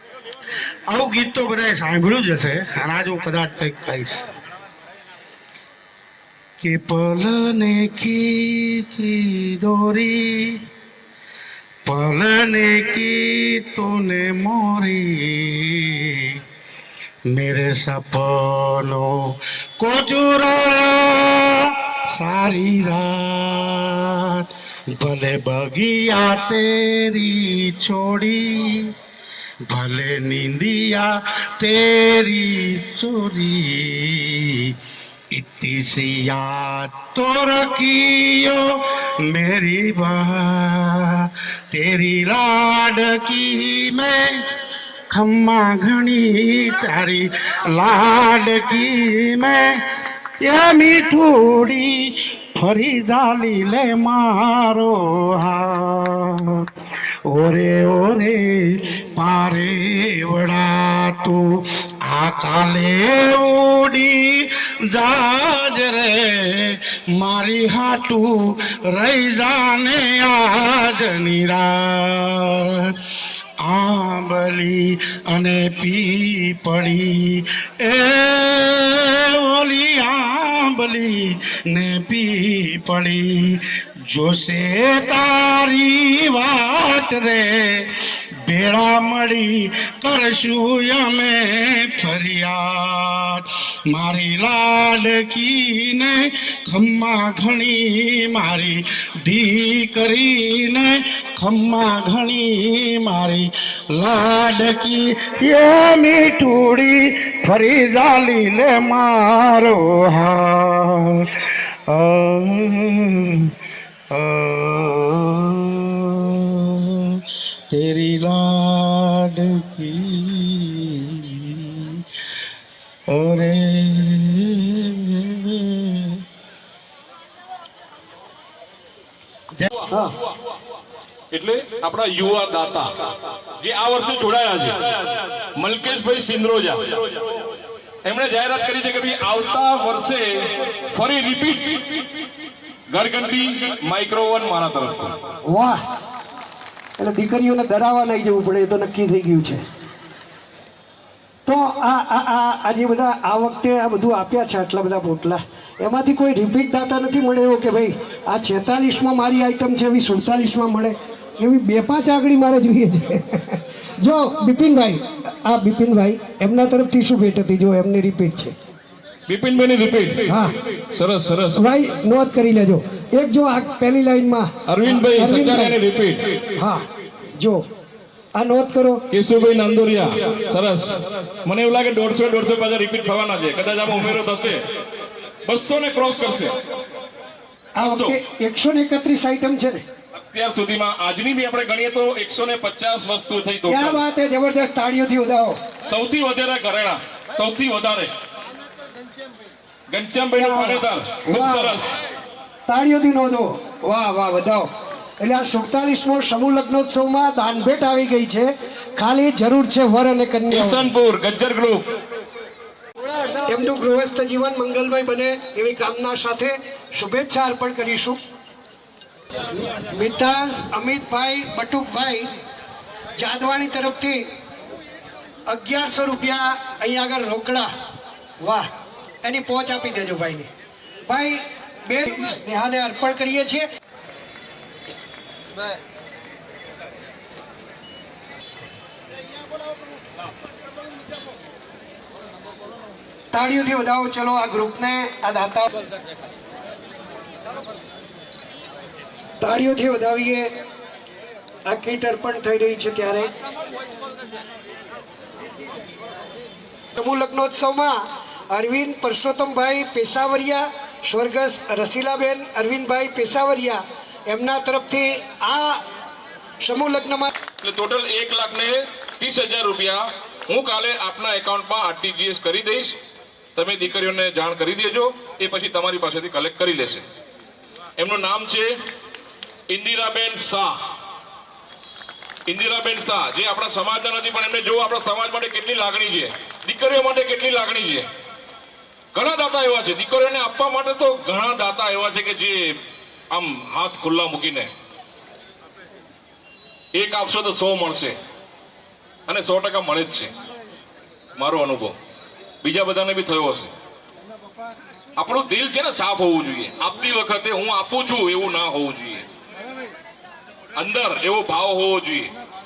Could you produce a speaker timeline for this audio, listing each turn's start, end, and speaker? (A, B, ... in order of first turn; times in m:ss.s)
0:00.9-0:04.2 A
0:06.6-0:10.6 A
0:11.8-0:16.4 A
0:17.3-0:28.9 A
0:29.7-0:34.7 A
0:35.3-0:44.5 A
0:45.1-0:49.8 A
0:50.4-0:56.7 A
0:57.3-1:01.5 A
1:02.0-1:12.9 A
1:13.6-1:27.9 A
1:28.4-1:53.5 A
1:54.1-2:02.0 A
2:03.1-2:06.2 A
2:11.3-2:17.2 B
2:18.0-2:22.1 B
2:22.9-2:25.2 B
2:25.5-2:25.8 C
2:27.0-2:29.6 C
2:31.4-2:48.5 C
2:49.3-2:51.6 B
2:50.3-2:50.5 C
2:51.6-2:55.8 C
2:54.7-2:56.5 B
2:56.6-2:56.8 C
2:57.4-2:57.6 C
2:58.4-2:59.0 C
2:59.1-3:04.7 B
3:05.5-3:06.5 B
3:07.8-3:09.8 C
3:07.8-3:08.2 B
3:10.3-3:14.0 B
3:13.7-3:15.6 C
3:15.8-3:18.1 B
3:19.9-3:21.8 B
3:20.4-3:21.9 C
3:22.7-3:30.8 C
3:30.5-3:31.8 B
3:33.4-3:38.2 C
3:39.7-3:42.3 C
3:43.2-3:44.3 C
3:45.5-3:47.7 C
3:48.4-3:48.7 C
3:49.2-3:50.5 C
3:51.1-3:53.7 C
4:03.3-4:05.7 C
4:09.4-4:10.5 C
4:11.7-4:13.3 C
4:17.0-4:18.0 C
4:18.5-4:25.8 C
4:26.6-4:27.3 C
4:27.6-4:33.0 B
4:33.5-4:37.0 B
4:38.0-4:38.7 B
4:39.7-4:40.8 B
4:42.5-4:48.0 B
4:49.1-4:52.8 B
4:53.3-4:54.7 B
4:56.9-4:58.2 B
4:59.3-5:00.3 B
5:01.4-5:01.9 B
5:02.6-5:03.7 B
5:05.2-5:09.2 B
5:10.8-5:12.3 B